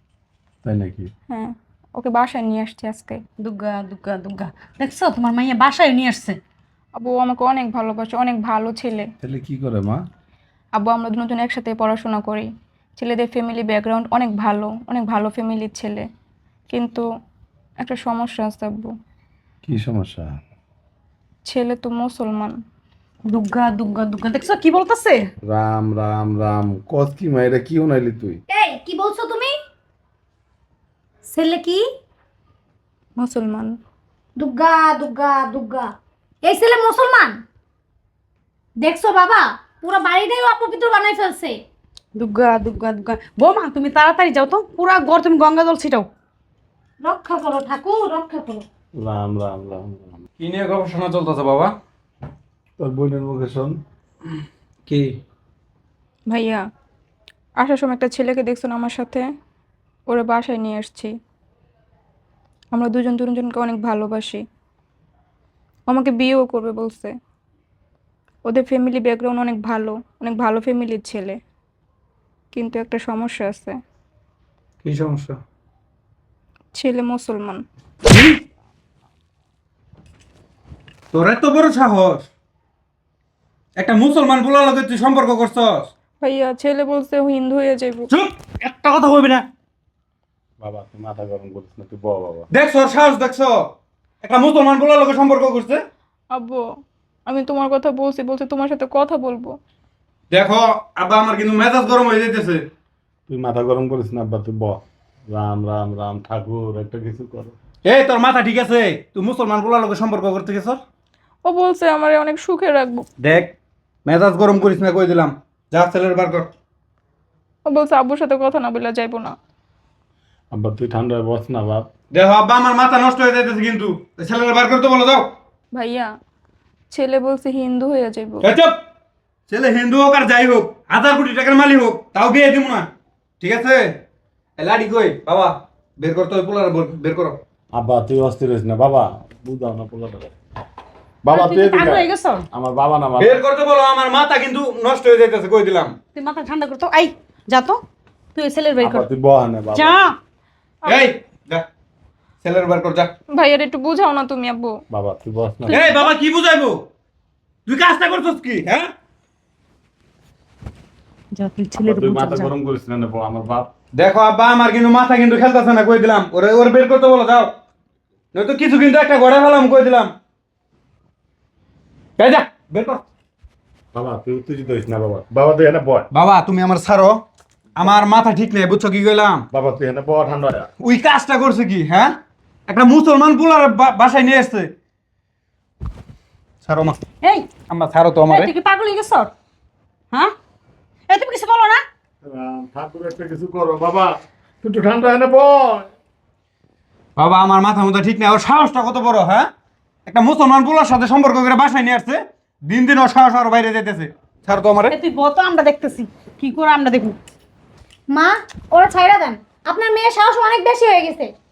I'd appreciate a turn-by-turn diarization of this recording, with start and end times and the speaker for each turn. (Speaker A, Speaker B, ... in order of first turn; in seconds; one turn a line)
Speaker A: 0.6-1.1
Speaker B: 1.3-3.2
Speaker C: 3.4-6.4
Speaker B: 7.0-9.1
Speaker A: 9.2-10.0
Speaker B: 10.8-12.5
Speaker B: 13.0-16.0
Speaker B: 16.7-17.0
Speaker B: 17.8-18.9
Speaker A: 19.6-20.4
Speaker B: 21.4-22.6
Speaker C: 23.3-25.2
Speaker A: 25.5-28.4
Speaker D: 28.5-29.6
Speaker D: 31.3-31.8
Speaker B: 33.2-33.8
Speaker D: 34.4-37.4
Speaker D: 38.8-41.6
Speaker C: 42.2-46.1
Speaker D: 47.0-48.6
Speaker A: 49.0-50.2
Speaker E: 50.4-51.8
Speaker A: 52.8-53.8
Speaker E: 54.9-55.1
Speaker B: 56.3-56.6
Speaker B: 57.6-59.2
Speaker B: 60.1-61.1
Speaker B: 62.7-64.4
Speaker B: 65.9-67.1
Speaker B: 68.5-71.3
Speaker B: 72.5-73.7
Speaker E: 74.8-75.4
Speaker B: 76.8-77.6
Speaker E: 78.1-78.4
Speaker E: 81.1-82.3
Speaker E: 83.8-85.9
Speaker B: 86.2-88.1
Speaker E: 88.1-89.5
Speaker A: 90.6-92.5
Speaker E: 92.5-93.7
Speaker E: 94.2-95.8
Speaker B: 96.3-96.6
Speaker B: 97.3-99.5
Speaker E: 100.3-102.7
Speaker A: 103.3-107.6
Speaker E: 107.8-110.8
Speaker B: 111.4-113.1
Speaker E: 113.2-113.5
Speaker E: 114.0-116.5
Speaker B: 117.7-119.3
Speaker A: 120.5-121.9
Speaker E: 122.1-125.3
Speaker B: 125.7-126.1
Speaker B: 126.9-128.5
Speaker E: 128.4-128.8
Speaker E: 129.5-132.9
Speaker E: 133.4-133.9
Speaker E: 134.6-137.4
Speaker A: 137.7-140.3
Speaker A: 141.2-143.4
Speaker C: 141.3-142.4
Speaker E: 143.2-145.9
Speaker C: 146.1-147.8
Speaker C: 148.3-149.1
Speaker A: 148.8-150.0
Speaker C: 149.7-150.1
Speaker E: 150.9-151.7
Speaker E: 152.4-153.1
Speaker B: 153.3-154.8
Speaker A: 154.9-156.1
Speaker C: 155.7-155.9
Speaker E: 155.7-156.8
Speaker E: 157.7-158.9
Speaker C: 161.3-162.5
Speaker A: 161.8-163.7
Speaker E: 163.9-167.5
Speaker E: 168.3-170.1
Speaker E: 172.2-173.0
Speaker A: 173.9-176.1
Speaker E: 176.1-177.2
Speaker E: 177.8-179.4
Speaker A: 179.5-180.7
Speaker E: 180.8-182.2
Speaker E: 182.7-184.7
Speaker E: 186.6-187.0
Speaker C: 187.2-187.5
Speaker E: 187.7-188.5
Speaker C: 188.3-189.3
Speaker C: 191.1-191.8
Speaker A: 192.2-195.9
Speaker E: 197.2-199.5
Speaker E: 200.1-204.9
Speaker C: 204.9-207.2
Speaker D: 208.1-211.3